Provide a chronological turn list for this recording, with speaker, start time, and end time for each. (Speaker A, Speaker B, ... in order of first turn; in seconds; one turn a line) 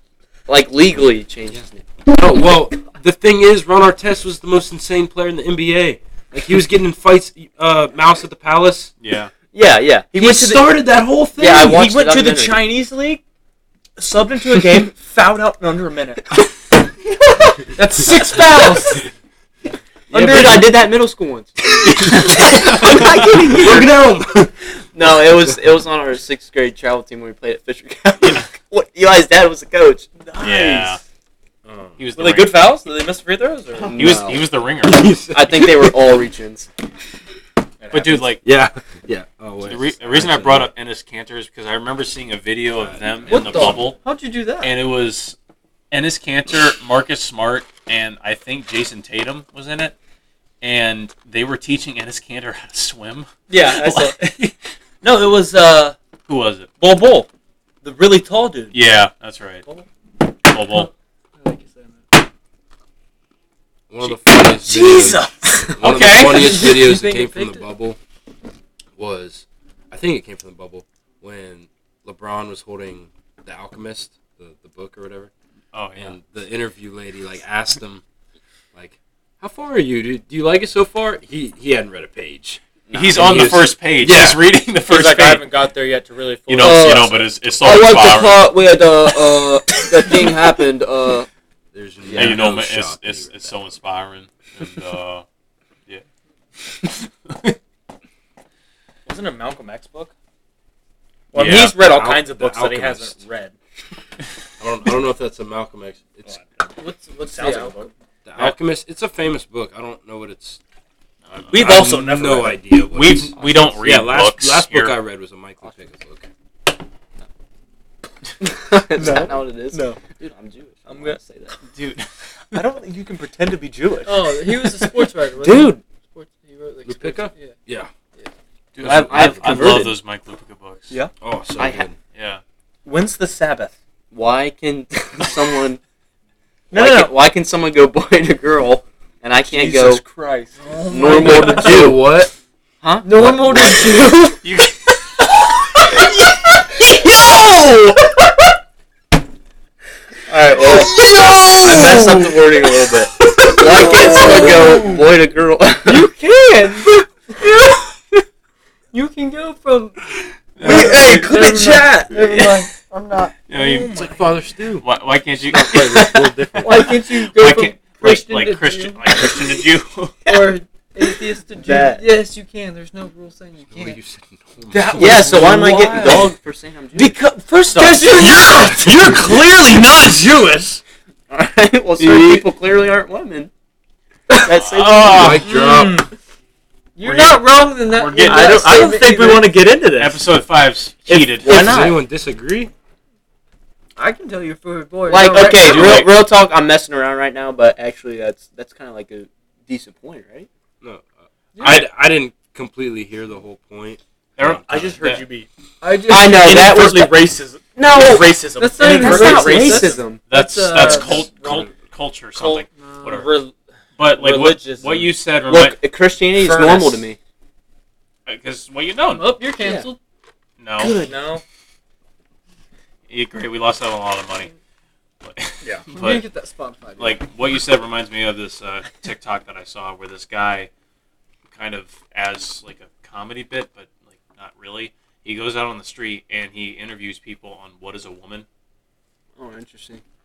Speaker A: 0.5-1.8
Speaker B: 2.1-8.9
Speaker C: 9.0-9.3
Speaker A: 9.5-10.7
Speaker B: 10.2-11.8
Speaker A: 11.4-12.6
Speaker D: 11.4-13.2
Speaker D: 14.0-16.3
Speaker D: 17.8-19.0
Speaker A: 20.1-24.1
Speaker B: 20.1-20.8
Speaker B: 21.8-24.5
Speaker C: 22.3-23.0
Speaker A: 24.9-30.1
Speaker C: 28.2-28.5
Speaker D: 30.2-31.0
Speaker C: 30.4-31.0
Speaker B: 31.6-31.9
Speaker C: 32.0-32.7
Speaker D: 32.1-34.0
Speaker A: 33.8-34.5
Speaker C: 33.9-35.1
Speaker B: 34.8-36.1
Speaker A: 35.3-36.7
Speaker D: 37.8-38.4
Speaker C: 37.9-38.4
Speaker B: 38.4-40.7
Speaker C: 39.6-44.0
Speaker B: 42.8-43.8
Speaker E: 43.3-44.7
Speaker C: 44.6-45.4
Speaker C: 45.9-49.9
Speaker C: 50.6-54.5
Speaker D: 53.5-54.2
Speaker D: 55.0-56.0
Speaker C: 56.3-56.7
Speaker D: 56.8-57.3
Speaker D: 57.8-58.8
Speaker C: 58.7-59.6
Speaker C: 60.5-60.9
Speaker E: 60.6-62.2
Speaker B: 63.9-68.0
Speaker D: 64.3-65.8
Speaker C: 65.8-66.7
Speaker E: 66.2-67.7
Speaker B: 69.0-75.3
Speaker C: 75.7-76.1
Speaker B: 76.0-78.0
Speaker B: 78.7-82.6
Speaker A: 82.9-83.6
Speaker C: 82.9-85.5
Speaker B: 83.1-84.5
Speaker D: 84.9-87.2
Speaker C: 86.5-88.5
Speaker A: 86.6-91.3
Speaker B: 91.7-93.6
Speaker A: 92.0-92.4
Speaker C: 92.2-95.2
Speaker C: 96.8-97.5
Speaker D: 99.0-100.1
Speaker D: 101.3-103.5
Speaker C: 101.3-101.8
Speaker B: 101.4-103.2
Speaker B: 104.6-106.4
Speaker D: 106.3-106.7
Speaker E: 106.8-107.9
Speaker D: 107.2-107.9
Speaker B: 108.2-110.6
Speaker B: 111.3-116.3
Speaker D: 111.5-112.6
Speaker C: 112.9-115.0
Speaker A: 118.4-121.5
Speaker D: 118.9-120.0
Speaker D: 120.9-121.6
Speaker C: 121.7-122.1
Speaker D: 122.5-124.3
Speaker E: 124.0-127.5
Speaker D: 125.4-125.8
Speaker B: 126.8-127.9
Speaker C: 128.7-130.9
Speaker A: 128.8-129.9
Speaker D: 128.9-129.6
Speaker B: 128.9-129.3
Speaker B: 131.2-132.0
Speaker A: 131.6-131.8
Speaker C: 132.1-132.4
Speaker D: 132.8-133.7
Speaker A: 134.1-135.8
Speaker D: 136.7-137.1
Speaker A: 136.7-140.0
Speaker D: 139.5-141.6
Speaker E: 140.6-141.8
Speaker A: 140.9-142.1
Speaker B: 141.1-142.3
Speaker A: 142.8-144.3
Speaker D: 143.0-144.2
Speaker C: 144.4-144.8
Speaker D: 146.8-147.9
Speaker A: 147.0-147.5
Speaker A: 150.3-150.9
Speaker D: 150.6-152.4
Speaker A: 151.6-156.1
Speaker D: 153.5-155.0
Speaker E: 153.8-154.8
Speaker E: 155.8-157.8
Speaker E: 158.9-160.0
Speaker C: 160.6-161.2
Speaker E: 160.6-163.3
Speaker A: 160.6-161.8
Speaker D: 160.6-162.1
Speaker C: 163.5-164.0
Speaker D: 163.5-164.3
Speaker B: 163.9-164.8
Speaker C: 164.8-170.3
Speaker B: 165.4-166.9
Speaker E: 166.6-169.2
Speaker E: 170.2-174.0
Speaker A: 171.6-172.1
Speaker B: 173.7-175.5
Speaker D: 174.7-176.3
Speaker A: 174.9-177.2
Speaker D: 176.9-180.8
Speaker E: 177.8-178.9
Speaker A: 181.3-183.5
Speaker C: 182.0-182.4
Speaker A: 184.4-185.4
Speaker C: 184.5-185.4
Speaker B: 185.1-186.0
Speaker D: 185.4-186.1
Speaker E: 186.9-189.5
Speaker C: 187.0-189.0
Speaker D: 188.2-190.2
Speaker C: 189.9-191.8
Speaker D: 191.1-192.0
Speaker B: 191.4-192.7
Speaker E: 194.0-196.1
Speaker A: 195.1-200.5
Speaker C: 195.5-196.1
Speaker B: 200.8-205.0
Speaker E: 201.5-201.8
Speaker C: 201.6-201.9
Speaker C: 204.4-205.2
Speaker D: 204.6-205.5
Speaker E: 205.8-206.8
Speaker A: 206.0-207.1
Speaker D: 206.1-210.0
Speaker A: 207.8-210.3
Speaker E: 208.6-211.4
Speaker C: 210.2-213.3
Speaker D: 210.8-211.7
Speaker D: 212.3-215.1
Speaker E: 212.8-213.3
Speaker C: 214.0-215.8
Speaker A: 215.5-217.2
Speaker D: 216.3-217.0
Speaker C: 218.2-219.4
Speaker E: 219.1-220.0
Speaker C: 220.6-221.0
Speaker D: 220.8-221.4
Speaker C: 223.1-224.5
Speaker C: 225.2-226.2
Speaker E: 225.9-227.2
Speaker C: 227.0-230.7
Speaker C: 231.5-238.4
Speaker A: 239.4-240.0